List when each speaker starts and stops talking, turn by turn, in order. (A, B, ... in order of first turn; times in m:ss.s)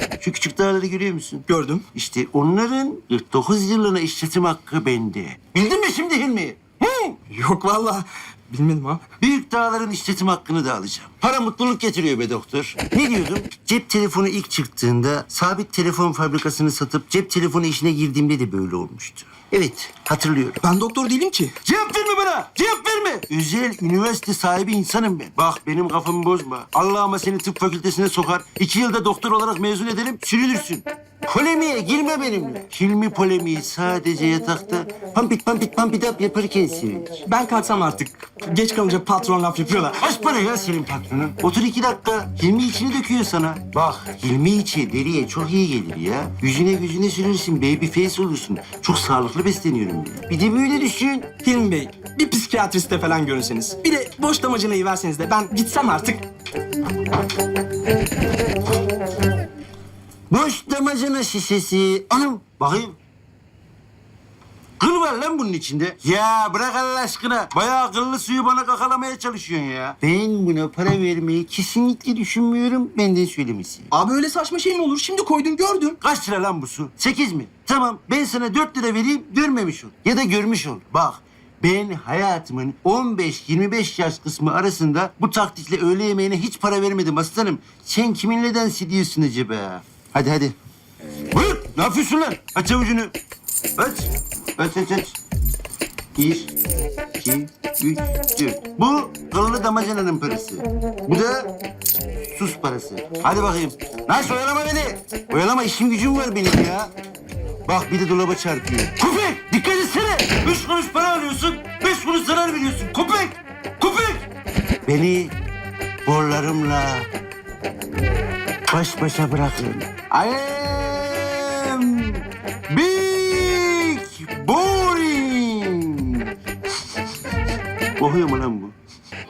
0:00.2-0:07.1 A
0:01.5-0:01.8 B
0:07.3-0:09.0 B
0:09.2-0:20.6 A
0:20.6-0:21.5 B
0:21.6-0:37.1 A
0:37.3-0:40.0 B
0:40.0-0:51.3 A
0:51.4-0:56.2 B
1:00.3-1:03.0 A
1:04.8-1:13.9 A
1:13.9-1:16.0 B
1:16.0-1:30.6 A
1:31.3-1:33.1 A
1:33.8-1:35.2 A
1:36.2-1:36.5 A
1:37.2-1:41.5 A
1:42.3-1:46.9 A
1:47.7-1:54.2 A
1:54.9-1:55.3 A
1:56.1-1:57.1 A
1:58.7-2:06.3 A
2:08.0-2:08.8 A